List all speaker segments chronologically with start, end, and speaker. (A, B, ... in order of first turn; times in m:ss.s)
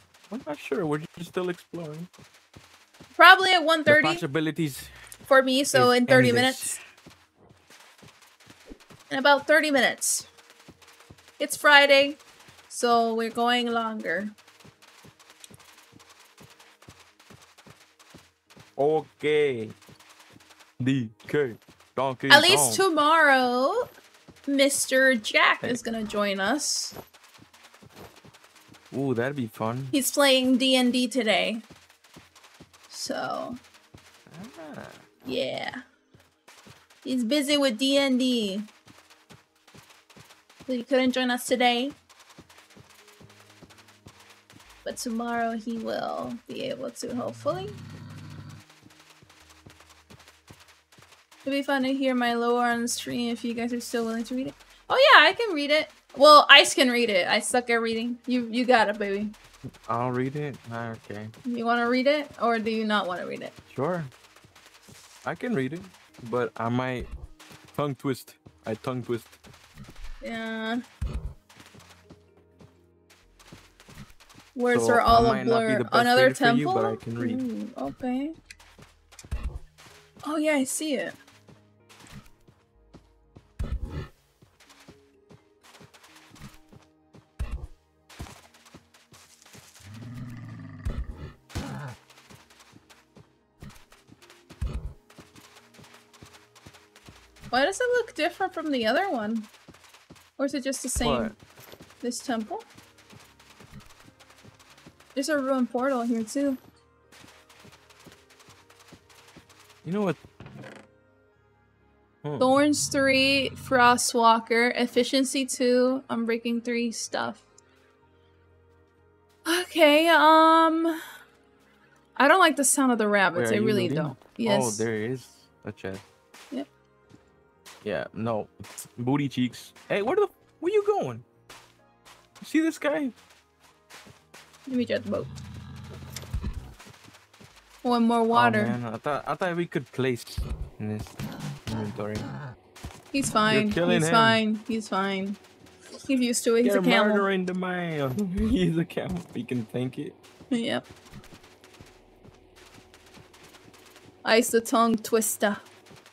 0:00.3-0:02.1 A
0:03.2-0:04.2 B
0:03.9-0:04.9 A
0:05.3-0:06.8 B
0:05.7-0:06.8 A
0:09.1-0:10.3 B
0:11.4-0:14.4 B
0:18.8-0:19.8 A
0:20.8-0:22.8 A
0:22.3-0:23.9 B
0:24.5-0:27.0 B
0:28.9-0:29.9 A
0:29.9-0:31.6 B
0:32.9-0:33.6 B
0:34.3-0:35.0 A
0:35.2-0:35.8 B
0:37.0-0:38.7 B
0:40.7-0:42.0 B
0:44.8-0:47.8 B
0:51.4-0:59.4 B
0:59.7-1:01.3 A
1:01.5-1:03.5 B
1:03.7-1:04.1 A
1:05.2-1:07.1 A
1:07.8-1:09.4 A
1:10.2-1:10.8 B
1:14.6-1:18.3 B
1:14.7-1:17.4 A
1:20.2-1:21.2 B
1:37.5-1:39.5 B
1:40.4-1:41.4 B
1:41.0-1:41.4 A
1:42.0-1:42.6 B
1:45.2-1:46.6 B
1:49.8-1:50.2 A
1:52.2-1:52.5 A
1:52.4-1:57.4 B
1:59.4-2:01.0 B
2:02.2-2:04.8 B
2:03.3-2:06.1 A
2:07.8-2:11.2 A
2:12.4-2:13.2 A
2:14.7-2:15.3 B
2:17.8-2:18.8 B
2:18.3-2:22.3 A
2:23.1-2:25.4 B
2:23.5-2:24.4 A
2:26.0-2:27.3 B
2:26.6-2:30.2 A
2:30.5-2:30.9 B
2:34.2-2:35.6 B